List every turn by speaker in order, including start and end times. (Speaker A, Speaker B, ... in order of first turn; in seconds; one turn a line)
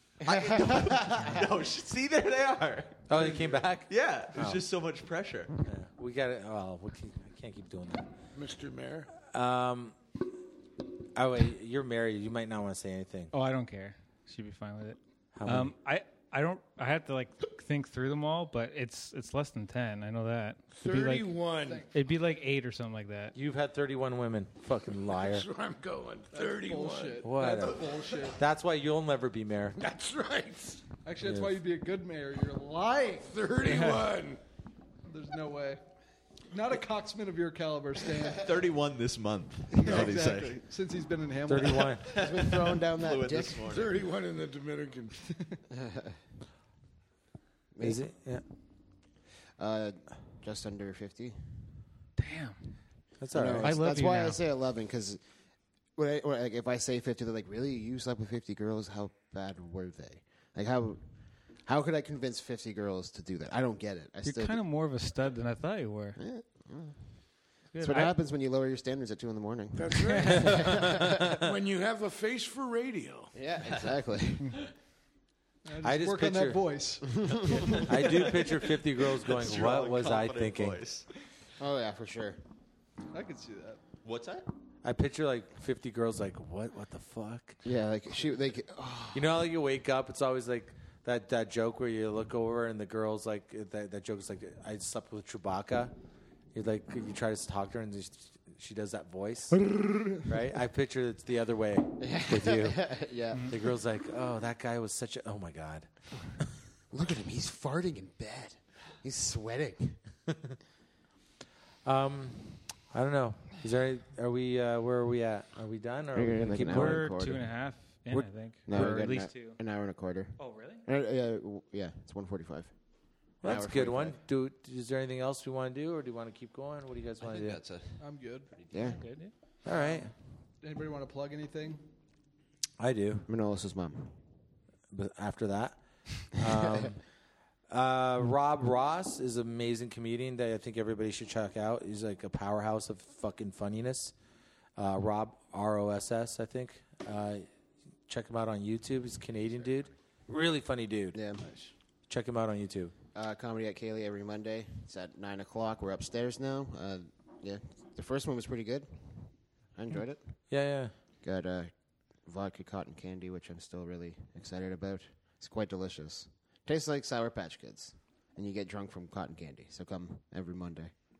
Speaker A: 0.2-3.1
Speaker B: 0.2-1.3
Speaker C: 3.1-4.6
Speaker A: 3.9-5.6
Speaker C: 5.6-8.1
Speaker D: 8.3-9.1
Speaker C: 9.2-9.9
Speaker C: 11.1-13.3
Speaker E: 13.3-23.3
Speaker C: 15.4-15.7
Speaker D: 20.7-21.9
Speaker F: 21.6-21.9
Speaker C: 23.3-25.4
Speaker D: 25.1-27.3
Speaker F: 26.3-28.4
Speaker C: 27.2-29.8
Speaker A: 27.6-28.3
Speaker D: 29.8-30.8
Speaker F: 31.0-34.0
Speaker C: 31.2-31.5
Speaker D: 33.2-34.4
Speaker F: 35.1-35.8
Speaker F: 36.5-38.6
Speaker A: 38.4-40.6
Speaker F: 39.7-42.1
Speaker C: 41.5-42.1
Speaker A: 42.1-44.0
Speaker B: 42.1-43.7
Speaker D: 43.7-45.2
Speaker B: 45.7-46.1
Speaker B: 47.7-48.0
Speaker C: 47.8-48.4
Speaker B: 49.6-51.4
Speaker E: 52.2-52.7
Speaker C: 53.2-53.8
Speaker B: 53.3-55.2
Speaker E: 53.6-54.4
Speaker B: 56.0-61.0
Speaker B: 61.6-64.7
Speaker E: 64.2-66.2
Speaker B: 66.2-67.0
Speaker E: 67.7-68.1
Speaker B: 67.8-71.3
Speaker D: 69.7-73.3
Speaker C: 70.4-71.4
Speaker B: 73.3-74.5
Speaker A: 73.6-73.9
Speaker F: 75.6-78.5
Speaker C: 75.8-76.7
Speaker B: 77.1-77.3
Speaker C: 77.8-80.8
Speaker A: 79.3-81.0
Speaker B: 81.6-82.4
Speaker F: 83.1-83.8
Speaker A: 84.0-84.5
Speaker C: 84.8-87.6
Speaker B: 87.6-89.3
Speaker C: 89.1-95.9
Speaker C: 96.5-102.8
Speaker B: 99.7-100.2
Speaker B: 102.0-103.5
Speaker C: 103.5-105.9
Speaker B: 106.9-110.0
Speaker C: 111.8-117.1
Speaker B: 116.1-117.6
Speaker E: 116.5-119.6
Speaker C: 118.1-119.0
Speaker B: 118.6-122.7
Speaker E: 120.4-120.8
Speaker B: 123.4-124.2
Speaker C: 123.4-127.6
Speaker A: 127.2-128.0
Speaker F: 128.0-128.5
Speaker A: 128.5-129.0
Speaker B: 128.7-129.0
Speaker E: 129.0-129.3
Speaker C: 129.6-130.1
Speaker F: 129.7-131.8
Speaker C: 132.8-133.2
Speaker B: 133.3-134.2
Speaker C: 134.9-137.0
Speaker C: 137.7-144.1
Speaker C: 144.8-147.5
Speaker C: 148.1-151.2
Speaker B: 151.1-151.4
Speaker F: 151.4-151.7
Speaker C: 152.1-152.9
Speaker B: 153.1-160.4
Speaker C: 160.5-160.9
Speaker B: 161.2-161.7
Speaker B: 162.2-170.9